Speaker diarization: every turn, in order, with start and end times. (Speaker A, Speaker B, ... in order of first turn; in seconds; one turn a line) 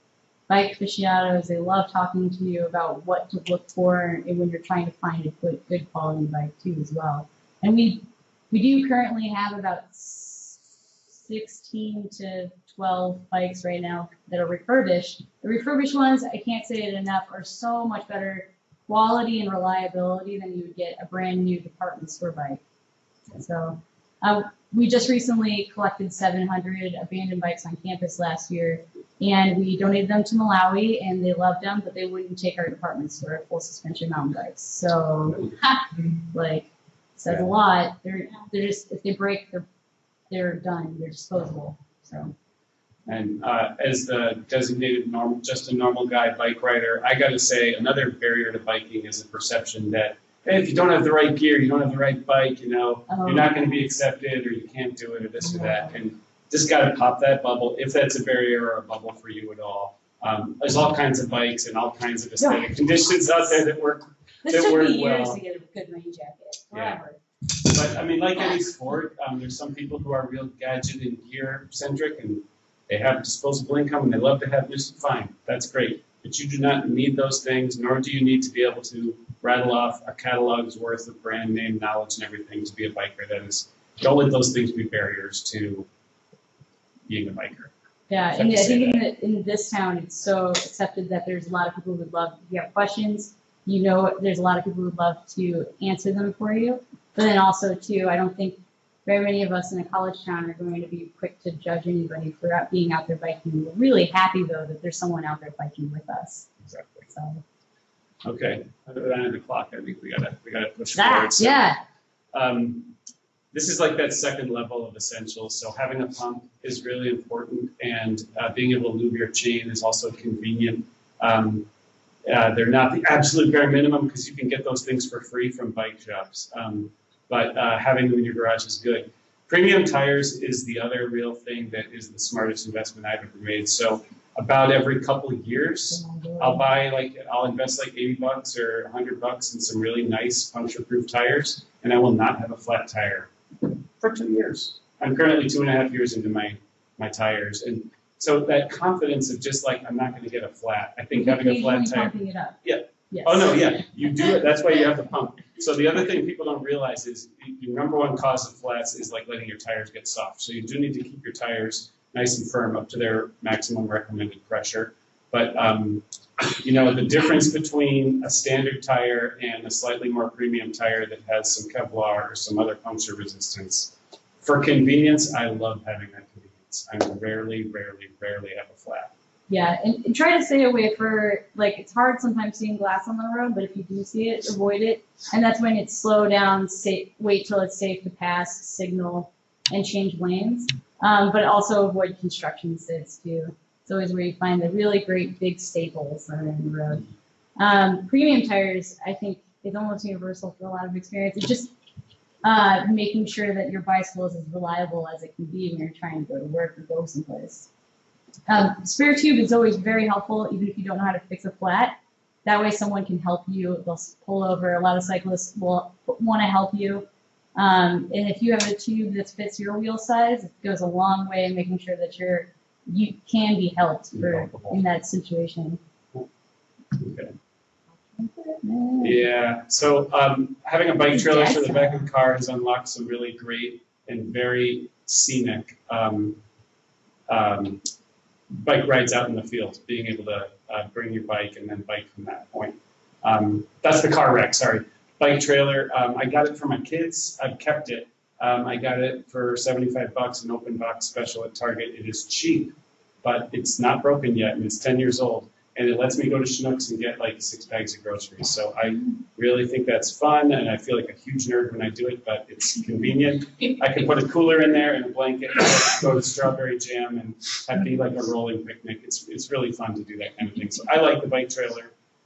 Speaker A: 0.5-10.6
Speaker A: 11.2-22.6
Speaker A: 23.3-35.5
Speaker A: 36.2-39.7
Speaker A: 40.3-42.3
Speaker B: 43.1-65.4
Speaker A: 53.1-53.5
Speaker A: 55.5-55.8
Speaker A: 62.4-62.7
Speaker A: 64.5-67.2
Speaker B: 66.7-67.0
Speaker B: 67.6-85.9
Speaker B: 87.1-87.7
Speaker A: 88.1-106.5
Speaker B: 88.3-89.1
Speaker B: 106.6-107.1
Speaker A: 107.1-107.4
Speaker B: 108.2-111.7
Speaker A: 111.0-111.8
Speaker B: 112.3-112.9
Speaker B: 113.5-121.7
Speaker B: 122.3-179.1
Speaker A: 135.9-136.6
Speaker A: 151.1-152.6
Speaker A: 153.1-153.5
Speaker A: 179.5-197.0
Speaker A: 197.6-201.7
Speaker A: 202.4-207.7
Speaker A: 208.5-225.8
Speaker B: 224.1-224.8
Speaker B: 227.0-227.3
Speaker A: 228.2-229.2
Speaker B: 229.0-236.4
Speaker A: 231.1-232.0
Speaker B: 237.3-237.9
Speaker B: 238.5-271.9